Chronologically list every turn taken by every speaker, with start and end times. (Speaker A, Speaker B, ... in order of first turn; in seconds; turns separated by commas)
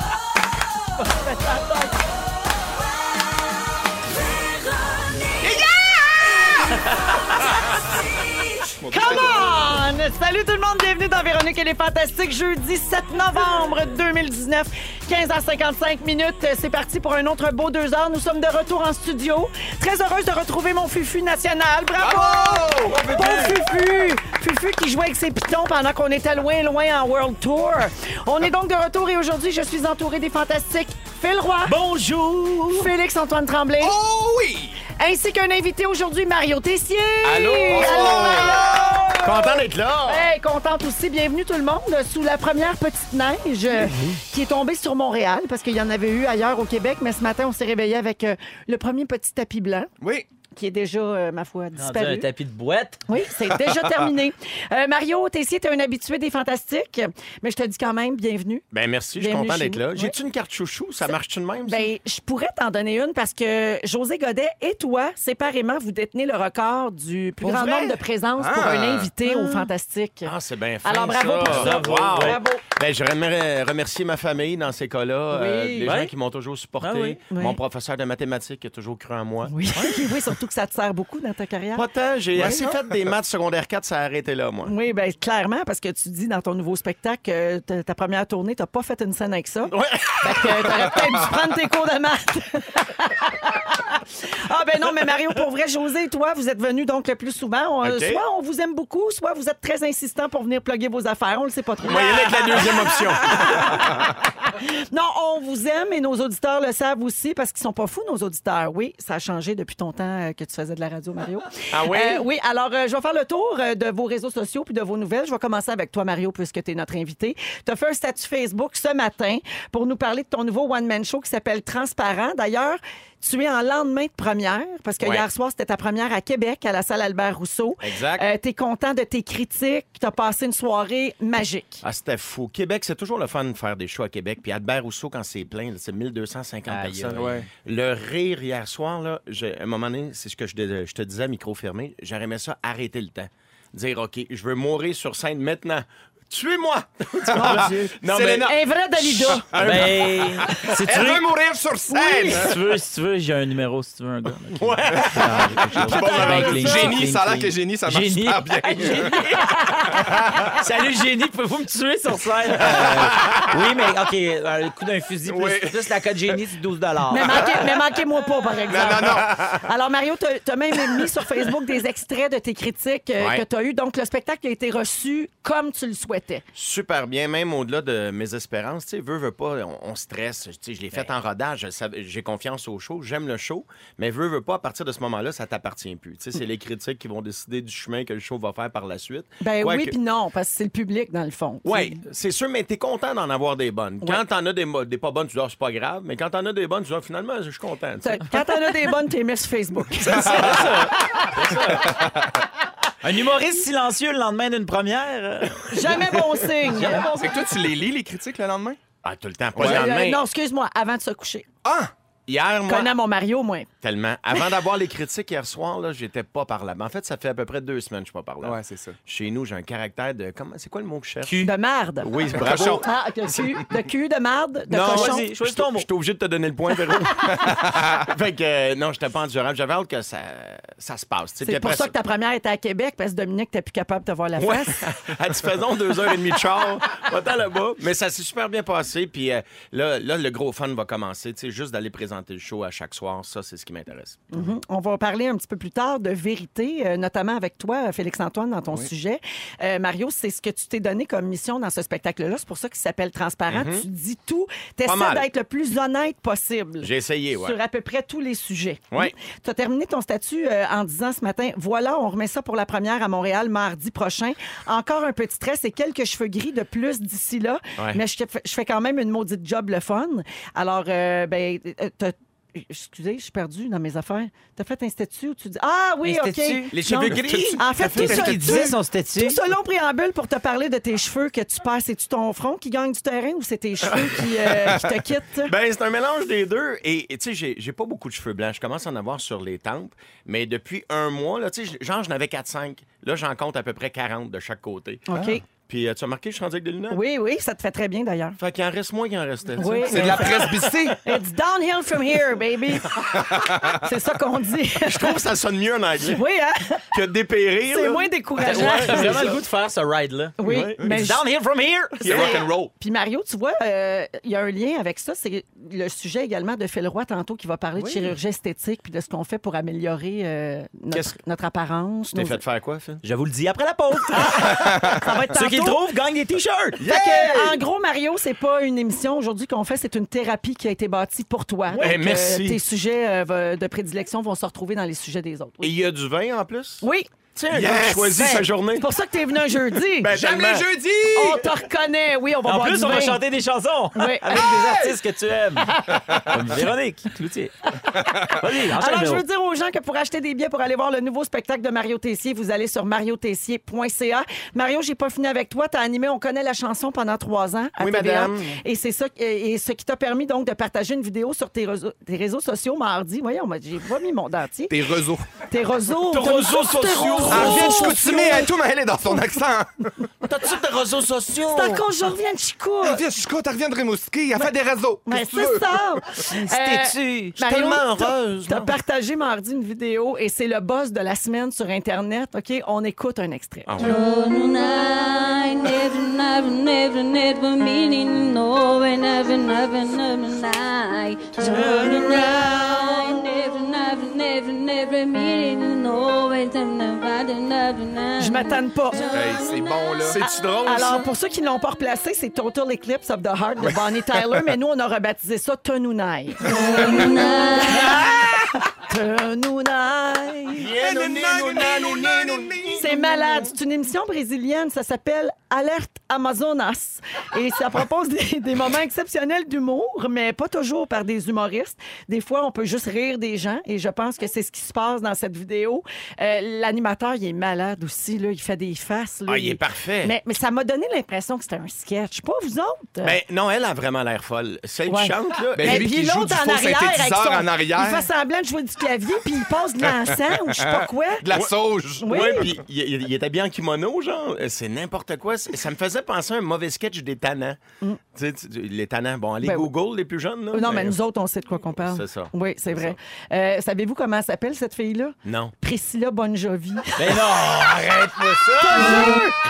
Speaker A: 1.1-1.9, Speaker B: 8.6-9.8, Speaker A: 8.9-31.8, Speaker B: 22.0-23.1, Speaker C: 23.2-23.6, Speaker D: 31.6-32.9, Speaker A: 32.7-34.0, Speaker B: 33.8-34.8, Speaker A: 35.0-49.9, Speaker C: 37.2-40.3, Speaker B: 37.7-39.3, Speaker B: 50.0-50.3, Speaker A: 50.5-52.3, Speaker D: 51.8-53.0, Speaker A: 53.1-58.6, Speaker C: 58.7-61.9, Speaker A: 59.2-60.2, Speaker A: 61.6-72.6, Speaker C: 67.4-68.0, Speaker B: 68.4-69.2, Speaker C: 70.2-80.2, Speaker D: 71.4-72.5, Speaker A: 75.3-75.9, Speaker D: 75.8-76.1, Speaker D: 76.8-77.2, Speaker A: 77.3-77.6, Speaker A: 79.5-82.7, Speaker C: 81.8-84.7, Speaker A: 84.7-131.8, Speaker C: 89.7-90.9, Speaker C: 97.8-98.2, Speaker C: 101.8-103.9, Speaker C: 111.7-112.3, Speaker C: 125.0-125.2, Speaker C: 127.8-128.2, Speaker C: 131.8-148.6, Speaker D: 136.7-137.5, Speaker B: 137.2-137.4, Speaker A: 147.3-149.5, Speaker B: 147.3-152.6, Speaker C: 149.3-150.2, Speaker D: 149.6-151.3, Speaker A: 151.9-152.5, Speaker D: 152.2-168.0, Speaker C: 154.6-156.9, Speaker B: 155.7-160.6, Speaker A: 156.1-156.5, Speaker A: 158.8-160.2, Speaker B: 162.8-163.4, Speaker B: 165.3-166.0, Speaker A: 167.1-176.4, Speaker B: 168.7-169.6, Speaker C: 173.2-173.4, Speaker C: 176.6-190.0, Speaker A: 189.4-192.0, Speaker C: 191.7-198.4, Speaker A: 198.0-201.3, Speaker B: 200.1-200.8, Speaker D: 200.1-202.0, Speaker B: 201.8-202.3, Speaker D: 203.0-207.4, Speaker A: 205.7-207.1, Speaker B: 207.1-208.8, Speaker C: 209.0-210.2, Speaker B: 209.6-209.9, Speaker A: 209.6-211.5, Speaker B: 211.6-211.9, Speaker C: 212.3-213.0, Speaker A: 212.7-213.7, Speaker C: 213.8-221.5, Speaker B: 218.4-219.0, Speaker A: 221.3-225.3, Speaker C: 222.0-222.9, Speaker B: 222.4-222.9, Speaker C: 224.7-231.9, Speaker D: 224.8-225.9, Speaker B: 227.4-227.9, Speaker A: 231.4-234.9, Speaker C: 234.4-244.5, Speaker A: 244.3-285.5, Speaker C: 253.5-253.9, Speaker C: 254.8-255.3, Speaker C: 256.8-257.6, Speaker D: 276.0-277.2, Speaker C: 276.7-278.7, Speaker D: 277.8-279.4, Speaker C: 283.9-284.2, Speaker C: 285.4-297.0, Speaker A: 295.1-295.4, Speaker A: 296.9-298.4, Speaker C: 298.4-300.9, Speaker A: 299.6-300.4, Speaker B: 299.9-301.0, Speaker A: 301.0-305.2, Speaker B: 303.1-303.9, Speaker C: 304.8-306.2, Speaker A: 306.1-306.9, Speaker C: 306.9-309.4, Speaker A: 307.7-309.4, Speaker D: 308.4-312.3, Speaker A: 310.4-311.2, Speaker C: 310.4-310.9, Speaker C: 312.0-312.5, Speaker B: 312.0-312.7, Speaker A: 312.3-322.4, Speaker B: 317.8-318.1, Speaker C: 320.9-321.2, Speaker C: 322.1-323.0, Speaker D: 323.0-326.8, Speaker A: 324.1-325.8, Speaker B: 324.6-325.0, Speaker C: 326.8-327.6, Speaker A: 326.8-335.7, Speaker D: 331.7-332.0, Speaker C: 331.8-332.6, Speaker C: 335.6-336.8, Speaker A: 336.8-337.1, Speaker C: 337.4-338.9, Speaker B: 337.5-338.5, Speaker A: 338.2-340.1, Speaker C: 340.0-340.7, Speaker B: 340.1-341.5, Speaker A: 341.1-343.2, Speaker D: 342.4-347.5, Speaker A: 343.9-344.6, Speaker B: 344.5-345.0, Speaker A: 345.7-346.2, Speaker B: 345.9-346.4, Speaker A: 347.7-364.8, Speaker D: 348.2-349.2, Speaker C: 357.8-358.6, Speaker B: 364.7-365.3, Speaker A: 365.5-368.5, Speaker C: 366.1-368.1, Speaker B: 367.3-370.1, Speaker C: 370.2-371.9, Speaker A: 371.5-373.1, Speaker B: 372.8-375.8, Speaker A: 375.1-383.7, Speaker D: 376.3-377.4, Speaker C: 377.4-378.8, Speaker C: 383.7-384.0, Speaker E: 383.8-400.1, Speaker A: 398.2-399.1, Speaker B: 399.1-400.2, Speaker C: 400.1-401.1, Speaker A: 400.2-406.5, Speaker B: 404.2-404.4, Speaker E: 406.4-408.1, Speaker A: 407.6-410.7, Speaker C: 410.6-413.5, Speaker B: 410.7-413.1, Speaker A: 412.8-433.2, Speaker C: 429.3-430.1, Speaker C: 433.0-435.9, Speaker A: 434.9-441.3, Speaker B: 435.5-438.1, Speaker B: 440.3-442.5, Speaker A: 442.0-442.5, Speaker C: 442.1-447.6, Speaker C: 448.1-451.0, Speaker A: 449.4-449.7, Speaker A: 450.5-457.1, Speaker C: 451.8-453.0, Speaker C: 455.2-455.5, Speaker D: 457.0-459.2, Speaker A: 458.6-459.4